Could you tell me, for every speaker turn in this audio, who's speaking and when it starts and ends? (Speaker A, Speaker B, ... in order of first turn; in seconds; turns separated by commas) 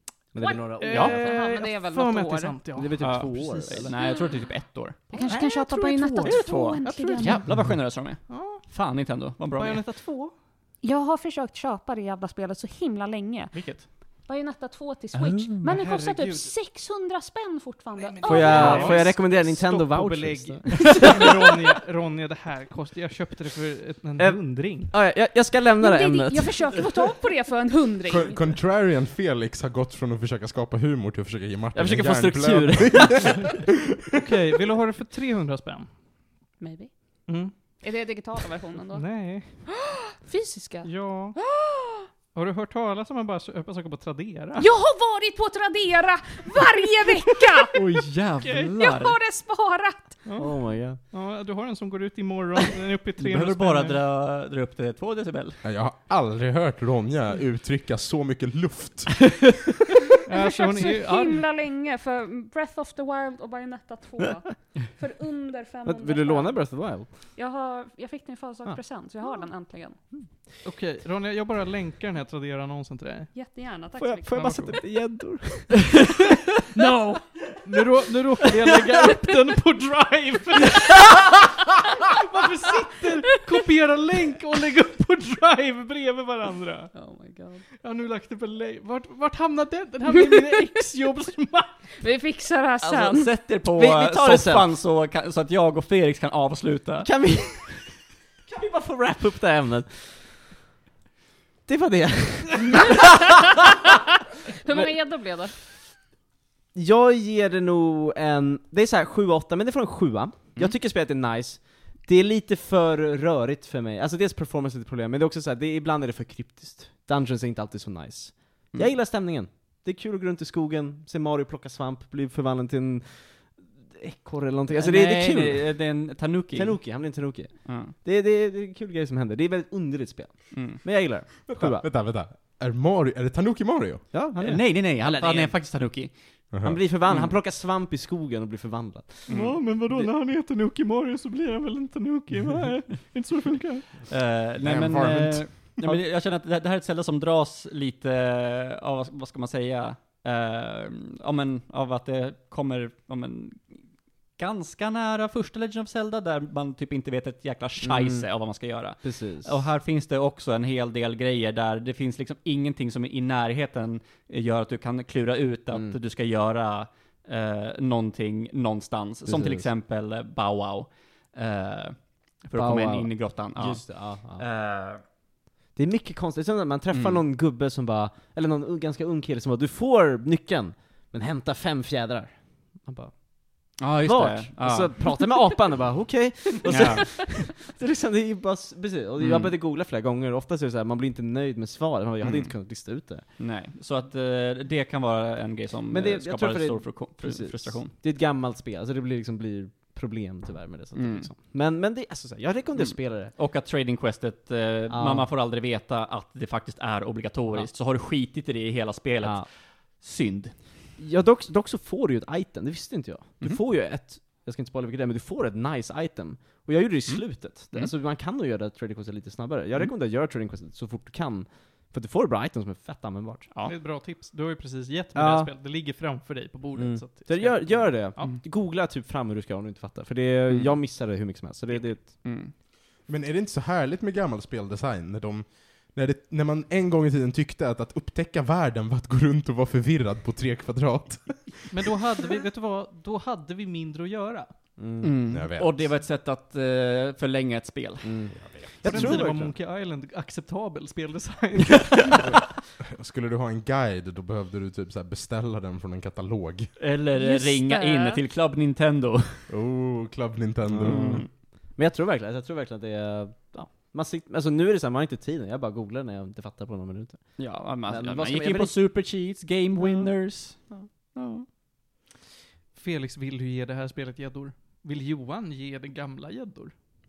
Speaker A: 0.3-1.3, Speaker B: 0.4-2.6, Speaker C: 0.8-3.9, Speaker A: 2.7-3.9, Speaker D: 3.0-5.1, Speaker B: 4.0-4.3, Speaker B: 5.1-7.5, Speaker C: 5.1-7.7, Speaker D: 6.2-9.8, Speaker A: 7.2-7.6, Speaker C: 8.3-8.7, Speaker C: 9.5-10.3, Speaker B: 10.8-13.6, Speaker D: 13.6-13.8, Speaker B: 14.2-19.1, Speaker A: 15.2-15.6, Speaker C: 15.6-16.6, Speaker C: 18.0-24.9, Speaker A: 18.3-21.2, Speaker D: 18.5-18.9, Speaker A: 24.2-26.9, Speaker B: 25.8-28.6, Speaker E: 28.1-33.6, Speaker A: 31.7-33.4, Speaker C: 34.2-35.9, Speaker B: 36.6-42.1, Speaker C: 37.3-37.5, Speaker C: 38.9-39.7, Speaker C: 40.8-41.4, Speaker C: 42.3-44.7, Speaker B: 44.6-47.8, Speaker D: 47.7-49.2, Speaker B: 48.4-50.2, Speaker C: 50.2-54.0, Speaker A: 50.4-51.0, Speaker D: 53.2-55.6, Speaker E: 55.6-59.6, Speaker C: 60.3-61.4, Speaker B: 60.4-70.1, Speaker A: 65.8-67.3, Speaker C: 70.6-73.3, Speaker B: 73.3-74.7, Speaker A: 74.0-76.1, Speaker C: 74.3-74.8, Speaker C: 76.7-81.2, Speaker B: 76.8-77.2, Speaker C: 82.1-87.0, Speaker B: 86.9-87.6, Speaker C: 87.8-91.8, Speaker B: 92.0-93.4, Speaker D: 92.9-97.1, Speaker A: 93.5-94.7, Speaker A: 97.0-100.4, Speaker A: 101.7-103.3, Speaker B: 104.6-105.5, Speaker A: 106.7-125.9, Speaker D: 124.7-127.9, Speaker A: 126.5-131.8, Speaker D: 130.5-130.8, Speaker E: 131.5-134.1, Speaker A: 134.1-135.6, Speaker D: 134.4-136.5, Speaker E: 136.5-136.8, Speaker A: 136.6-140.1, Speaker D: 137.1-137.3, Speaker D: 139.3-139.6, Speaker C: 139.3-143.9, Speaker D: 144.1-175.0, Speaker E: 144.6-145.9, Speaker A: 157.8-158.3, Speaker A: 159.0-159.5, Speaker A: 169.3-169.7, Speaker A: 172.6-174.4, Speaker A: 175.7-193.3, Speaker D: 176.9-177.2, Speaker D: 183.8-185.4, Speaker D: 186.7-187.1, Speaker D: 189.2-189.6, Speaker D: 192.2-197.9, Speaker A: 195.9-203.3, Speaker D: 200.9-201.3, Speaker D: 202.8-210.8, Speaker A: 204.9-205.3, Speaker A: 209.2-209.5, Speaker A: 211.0-223.5, Speaker D: 217.1-217.9, Speaker C: 223.7-228.3, Speaker A: 225.2-225.5, Speaker A: 226.8-232.3, Speaker D: 230.5-230.8, Speaker D: 231.7-232.5, Speaker E: 233.1-241.7, Speaker C: 241.7-244.6, Speaker A: 244.8-245.2, Speaker D: 245.0-249.2, Speaker E: 245.3-245.8, Speaker A: 248.0-249.5, Speaker E: 248.5-249.1, Speaker C: 248.8-252.3, Speaker E: 252.9-256.8, Speaker D: 256.8-259.5, Speaker B: 257.1-258.2, Speaker E: 259.5-261.3, Speaker A: 260.7-268.8, Speaker D: 260.8-261.3, Speaker D: 267.4-271.5, Speaker C: 272.8-276.8